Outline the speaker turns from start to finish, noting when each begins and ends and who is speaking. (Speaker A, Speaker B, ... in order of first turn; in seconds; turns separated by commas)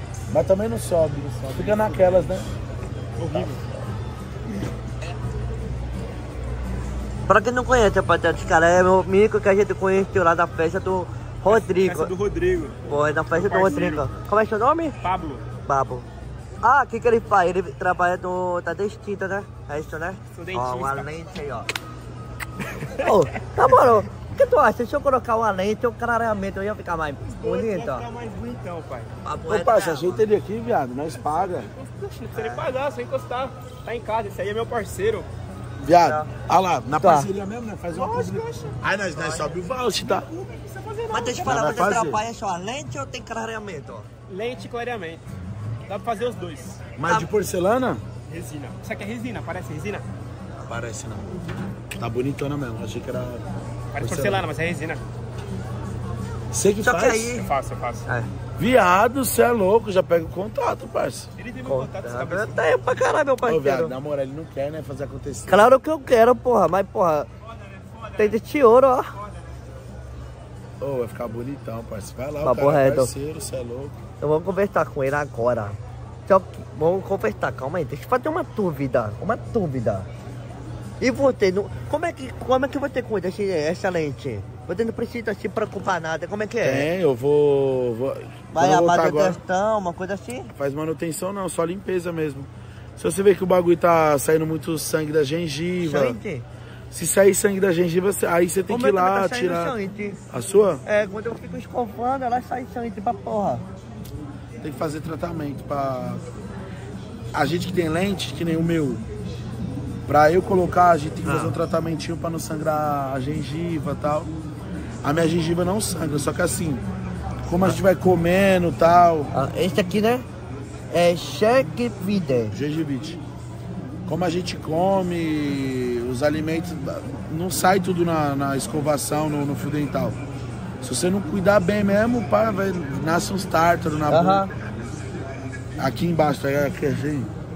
Speaker A: 0.3-2.5, Speaker B: 1.5-2.3, Speaker B: 3.2-3.6, Speaker C: 7.3-12.1, Speaker B: 11.5-12.8, Speaker C: 12.9-15.0, Speaker B: 13.3-14.1, Speaker B: 15.0-15.5, Speaker C: 15.7-16.1, Speaker C: 16.6-21.7, Speaker B: 20.3-21.1, Speaker B: 22.8-23.5, Speaker C: 23.0-28.1, Speaker B: 27.3-29.1, Speaker C: 29.2-30.2, Speaker A: 29.5-31.7, Speaker B: 31.9-35.3, Speaker C: 32.3-32.6, Speaker A: 35.8-40.3, Speaker C: 36.0-36.3, Speaker C: 37.0-37.3, Speaker B: 37.9-39.5, Speaker B: 40.5-41.7, Speaker C: 41.1-44.1, Speaker A: 41.4-42.2, Speaker B: 44.3-45.2, Speaker B: 45.9-46.8, Speaker A: 47.0-48.0, Speaker B: 48.3-50.0, Speaker A: 50.7-51.3, Speaker A: 52.0-53.5, Speaker B: 53.9-55.0, Speaker A: 54.0-54.5, Speaker A: 56.5-57.5, Speaker C: 56.8-57.5, Speaker B: 57.4-58.1, Speaker A: 58.6-61.3, Speaker B: 61.4-62.6, Speaker C: 61.7-63.9, Speaker A: 63.5-65.7, Speaker C: 65.5-67.3, Speaker C: 68.2-69.1, Speaker A: 70.8-74.0, Speaker C: 72.4-73.1, Speaker C: 74.2-80.1, Speaker C: 81.0-86.9, Speaker A: 86.6-89.4, Speaker C: 88.5-90.5, Speaker A: 90.6-96.2, Speaker C: 95.8-96.5, Speaker A: 96.9-99.7, Speaker C: 98.7-100.2, Speaker A: 100.3-100.8, Speaker C: 100.9-103.7, Speaker A: 104.6-106.2, Speaker A: 107.3-109.0, Speaker A: 110.1-114.3, Speaker C: 111.2-111.6, Speaker A: 115.0-116.8, Speaker A: 117.5-119.3, Speaker C: 119.3-120.3, Speaker C: 120.9-122.5, Speaker A: 122.5-123.2, Speaker A: 124.1-130.2, Speaker A: 130.8-134.5, Speaker C: 134.1-134.5, Speaker A: 135.8-137.3